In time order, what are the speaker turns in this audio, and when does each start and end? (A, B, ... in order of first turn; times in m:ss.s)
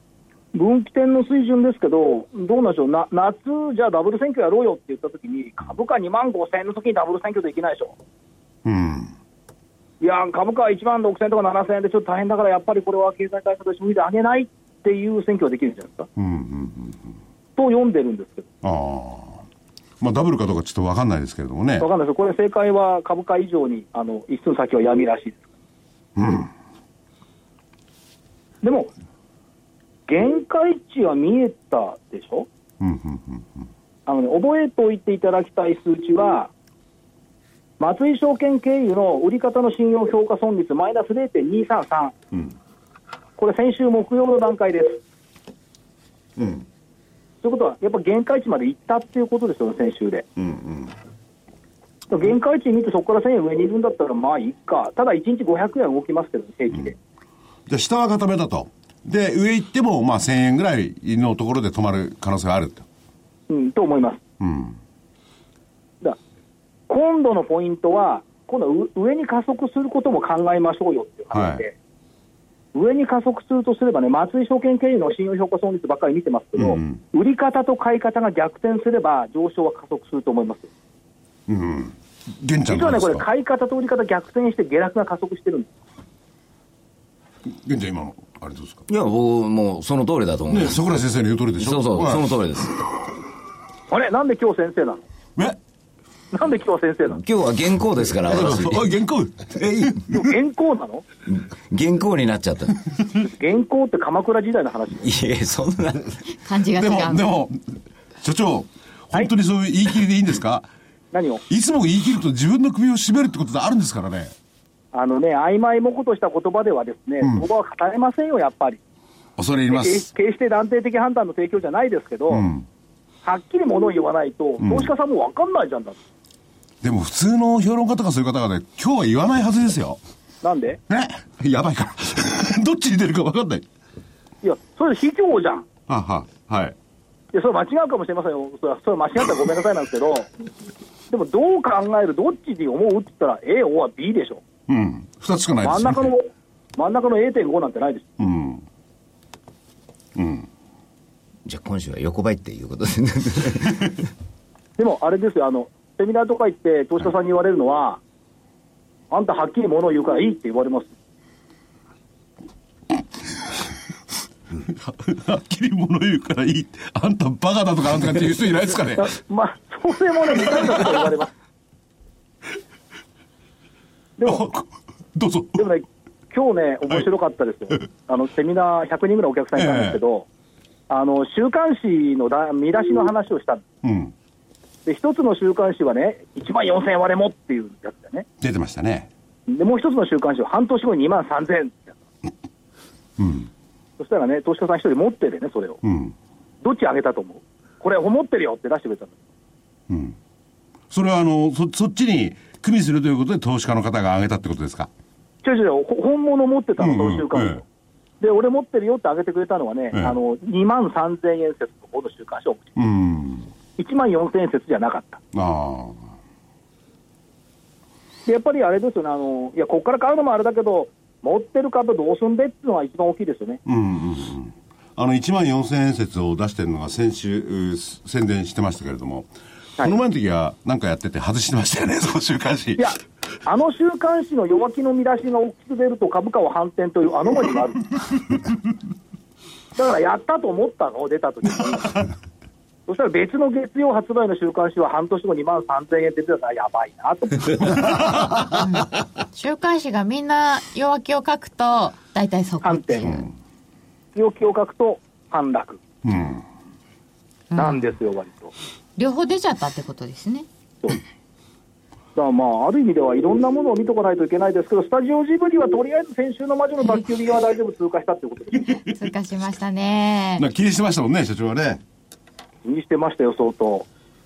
0:00.5-0:08.0 A
0:08.6-0:09.1 B
0:10.0-0:16.1 A
0:16.2-0:17.1 B
0:17.6-0:18.5 A
0:18.6-0:19.4 B
0:20.0-0:21.9 B
0:21.8-0:25.4 A
0:26.2-0:26.5 B
0:28.6-0:28.9 A
0:30.1-0:32.5 A
0:32.8-0:33.5 B
0:34.1-0:36.5 A
0:37.8-0:42.1 A
0:43.4-0:45.0 A
0:46.4-0:46.6 B
0:47.4-0:50.3 A
0:50.4-0:50.9 B
0:52.1-0:57.0 A
0:57.7-1:02.8 B
1:03.5-1:04.2 A
1:04.4-1:04.8 B
1:06.9-1:11.7 A
1:11.3-1:11.6 B
1:12.7-1:20.7 A
1:16.6-1:17.0 B
1:21.5-1:23.2 B
1:22.6-1:25.7 A
1:27.5-1:28.8 B
1:28.9-1:30.8 C
1:30.5-1:32.3 B
1:31.6-1:32.7 C
1:33.9-1:35.0 A
1:36.3-1:37.2 A
1:37.2-1:38.9 C
1:38.3-1:40.2 B
1:39.5-1:40.0 C
1:40.1-1:41.0 A
1:41.3-1:42.8 C
1:43.2-1:45.1 A
1:45.0-1:46.1 C
1:46.4-1:47.2 D
1:46.8-1:50.7 B
1:51.1-1:51.4 A
1:51.5-1:54.3 B
1:54.9-1:58.8 A
1:57.2-1:57.4 B
1:59.4-2:00.1 B
1:59.7-2:02.5 A
2:02.3-2:02.6 B
2:03.2-2:06.0 A
2:04.6-2:04.9 B
2:06.8-2:10.0 B
2:10.4-2:10.8 A
2:10.9-2:13.6 B
2:14.4-2:15.7 A
2:15.9-2:16.7 B
2:17.3-2:20.3 A
2:21.1-2:24.4 A
2:24.7-2:26.1 B
2:25.6-2:28.1 A
2:28.2-2:28.6 B
2:30.2-2:30.5 B
2:31.4-2:34.0 C
2:34.8-2:38.0 A
2:39.1-2:40.9 A
2:44.7-2:49.1 B
2:49.0-2:51.3 A
2:54.2-2:54.4 A
2:54.2-2:55.7 B
2:55.6-3:00.2 A
2:59.5-3:00.0 B
3:00.9-3:03.6 A
3:03.8-3:04.1 B
3:04.8-3:08.2 A
3:08.4-3:09.1 B
3:09.5-3:11.9 A
3:13.2-3:13.5 B
3:14.0-3:15.8 A
3:15.8-3:16.1 B
3:16.6-3:19.2 A
3:19.9-3:20.2 B
3:20.9-3:24.9 B
3:25.4-3:27.6 A
3:26.8-3:27.6 B
3:28.2-3:32.7 A
3:29.9-3:30.2 B
3:32.8-3:33.5 B
3:33.8-3:35.2 A
3:35.3-3:36.0 B
3:38.3-3:43.6 A
3:43.6-3:52.9 B
3:52.8-3:57.9 A
3:59.8-4:02.0 A
4:01.7-4:02.0 B
4:02.9-4:08.1 A
4:08.0-4:08.4 B
4:08.5-4:13.2 D
4:12.6-4:13.2 A
4:13.0-4:13.3 B
4:14.1-4:15.8 A
4:16.0-4:16.4 B
4:17.5-4:17.9 D
4:17.6-4:18.5 A
4:19.0-4:20.4 D
4:22.2-4:28.8 A
4:28.9-4:30.4 D
4:30.4-4:31.8 B
4:32.6-4:33.9 A